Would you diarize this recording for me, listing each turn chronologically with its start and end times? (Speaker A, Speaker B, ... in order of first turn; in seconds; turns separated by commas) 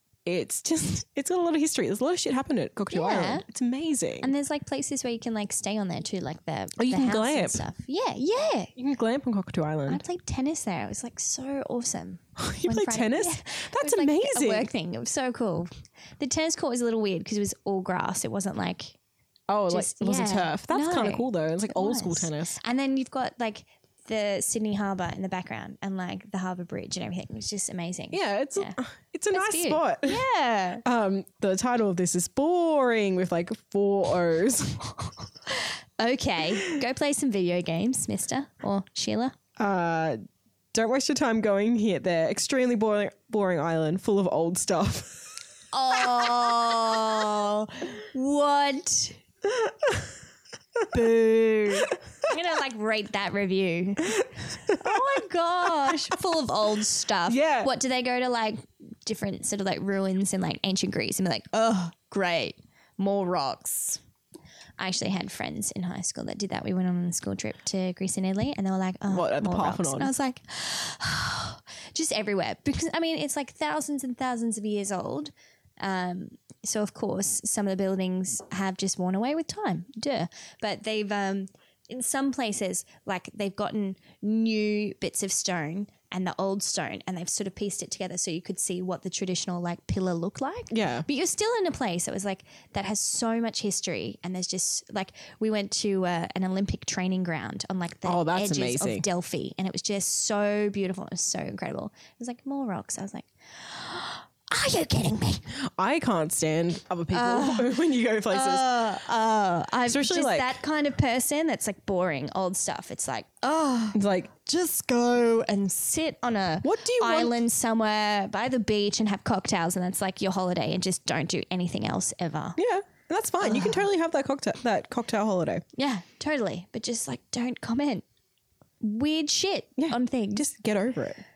Speaker A: 0.2-4.3, Speaker B: 2.9-3.4, Speaker B: 4.2-8.7, Speaker A: 6.8-7.6, Speaker A: 8.8-10.0, Speaker B: 9.9-19.0, Speaker A: 12.4-14.7, Speaker A: 19.5-22.6, Speaker B: 19.7-28.8, Speaker A: 28.1-30.2, Speaker B: 29.3-30.8, Speaker A: 30.8-35.0, Speaker B: 35.5-39.4, Speaker A: 39.6-40.2, Speaker A: 40.7-45.2, Speaker B: 45.7-49.2, Speaker A: 46.2-46.5, Speaker A: 49.5-50.0, Speaker A: 50.8-51.9, Speaker B: 50.9-64.0, Speaker A: 54.7-56.2, Speaker A: 57.3-57.7, Speaker B: 64.8-105.5, Speaker A: 69.1-70.1, Speaker A: 90.7-91.1, Speaker A: 98.1-99.1, Speaker A: 105.5-108.7, Speaker B: 107.1-107.8, Speaker B: 108.3-122.6, Speaker A: 109.9-110.6, Speaker A: 113.9-114.3, Speaker A: 116.6-117.4, Speaker A: 122.6-125.6, Speaker B: 123.4-123.8, Speaker B: 125.8-128.0, Speaker B: 128.8-130.4, Speaker A: 129.8-131.2